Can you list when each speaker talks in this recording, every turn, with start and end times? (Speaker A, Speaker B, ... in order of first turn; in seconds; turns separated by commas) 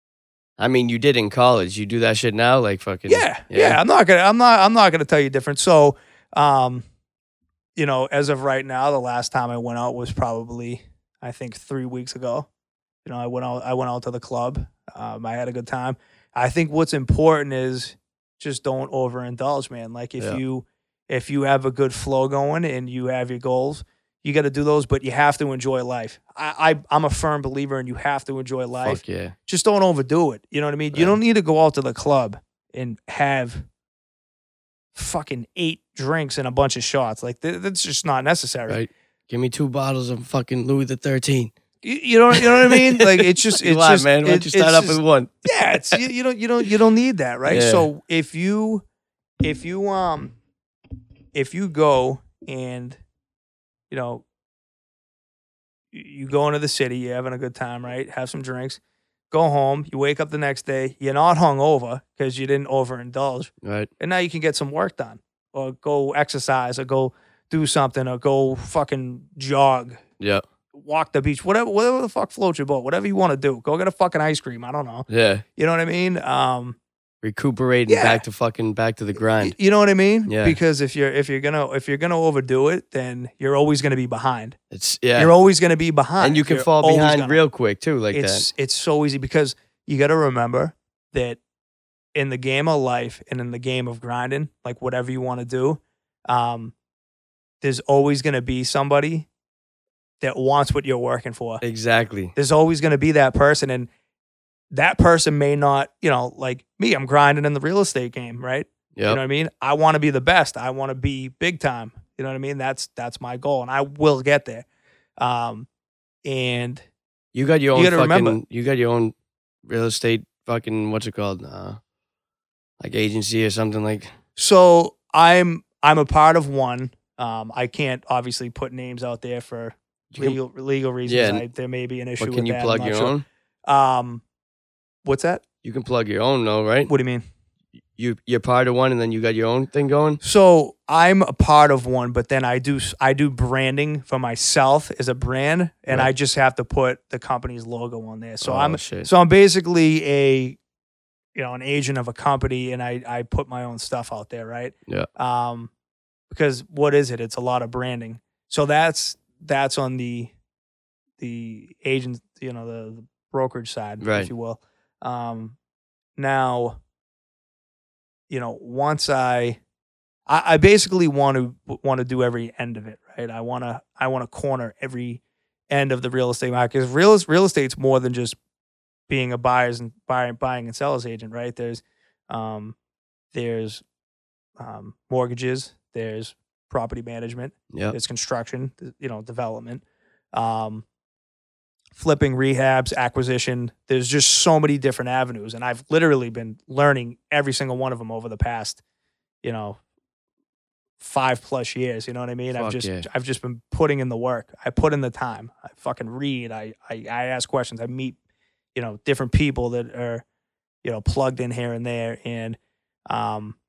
Speaker A: 0.6-3.8, Speaker B: 3.1-6.8, Speaker B: 7.8-12.5, Speaker B: 13.1-33.6, Speaker A: 28.8-29.4, Speaker B: 35.0-38.8, Speaker A: 38.7-41.5, Speaker B: 41.8-48.8, Speaker A: 42.3-45.3, Speaker A: 47.5-47.9, Speaker B: 49.4-50.4, Speaker B: 51.3-53.0, Speaker B: 53.9-54.2, Speaker B: 55.9-58.8, Speaker B: 59.3-70.0, Speaker A: 63.6-63.9, Speaker B: 70.8-76.8, Speaker A: 75.1-75.4, Speaker A: 77.2-79.5, Speaker B: 77.9-78.2, Speaker B: 79.4-84.6, Speaker A: 80.3-80.6, Speaker A: 84.7-85.3, Speaker B: 85.2-87.4, Speaker A: 86.2-88.5, Speaker B: 88.1-91.4, Speaker B: 92.2-96.7, Speaker B: 97.6-99.3, Speaker B: 100.2-101.6, Speaker A: 101.6-102.3, Speaker B: 102.3-103.9, Speaker B: 104.7-114.7, Speaker A: 109.0-109.2, Speaker B: 115.2-115.7, Speaker B: 116.2-116.8, Speaker A: 117.3-119.2, Speaker B: 117.7-118.4, Speaker A: 119.7-121.8, Speaker A: 122.8-124.1, Speaker B: 124.4-133.2, Speaker A: 130.1-130.4, Speaker A: 131.1-131.4, Speaker A: 132.2-133.2, Speaker B: 133.7-134.2, Speaker B: 135.1-135.4, Speaker A: 135.6-136.9, Speaker B: 136.9-137.2, Speaker A: 138.0-140.2, Speaker B: 140.2-150.6, Speaker A: 148.4-149.1, Speaker B: 151.3-155.7, Speaker B: 156.3-160.3, Speaker B: 161.2-165.6, Speaker A: 164.0-164.3, Speaker B: 166.2-166.8, Speaker B: 168.3-169.6, Speaker B: 170.3-178.4, Speaker B: 179.1-182.8, Speaker B: 183.3-183.8, Speaker B: 184.6-189.8, Speaker A: 187.7-188.0, Speaker B: 190.3-190.8, Speaker B: 192.0-198.8, Speaker B: 199.4-199.8, Speaker B: 201.0-208.2, Speaker A: 202.6-203.1, Speaker B: 208.8-210.2, Speaker B: 210.8-212.6, Speaker B: 213.1-213.6